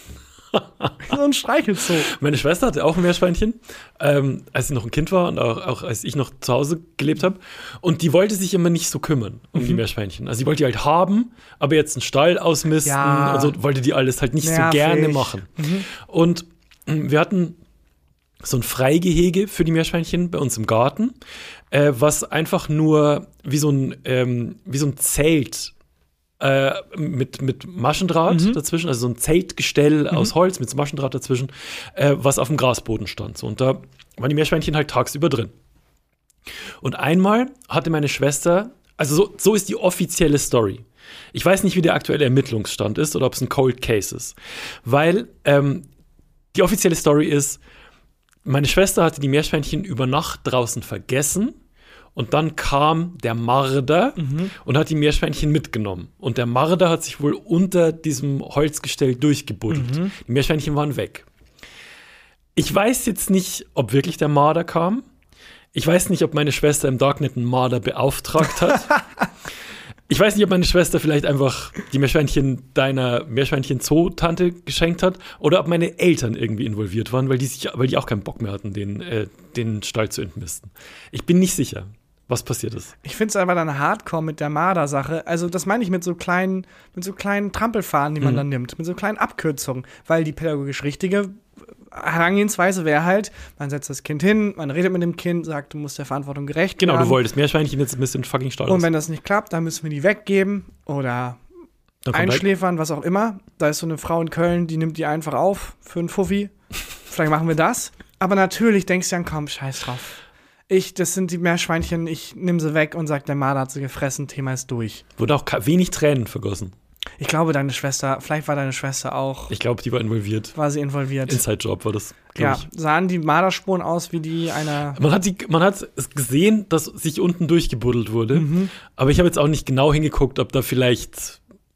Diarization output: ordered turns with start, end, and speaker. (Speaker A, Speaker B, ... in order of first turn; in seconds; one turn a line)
Speaker A: 0.5-0.9
Speaker B: 1.0-2.1
Speaker A: 2.0-17.6
Speaker B: 12.8-13.6
Speaker B: 14.4-15.9
Speaker A: 18.4-21.2
Speaker A: 21.7-25.7
Speaker A: 26.4-35.5
Speaker B: 28.3-28.6
Speaker A: 36.8-45.9
Speaker A: 46.5-47.6
Speaker A: 48.4-51.5
Speaker A: 52.1-61.2
Speaker B: 54.2-54.5
Speaker B: 59.7-60.1
Speaker A: 62.5-65.0
Speaker A: 65.7-68.9
Speaker A: 70.1-82.9
Speaker B: 83.0-91.4
Speaker B: 91.9-97.2
Speaker A: 96.8-98.9
Speaker B: 98.7-101.4
Speaker A: 102.0-102.4
Speaker B: 102.1-106.5
Speaker B: 107.1-115.0
Speaker A: 115.2-116.7
Speaker B: 117.2-119.5
Speaker A: 119.5-120.5
Speaker B: 120.5-121.4
Speaker A: 121.2-122.6
Speaker B: 122.3-125.0
Speaker A: 124.9-131.4
Speaker B: 128.3-128.7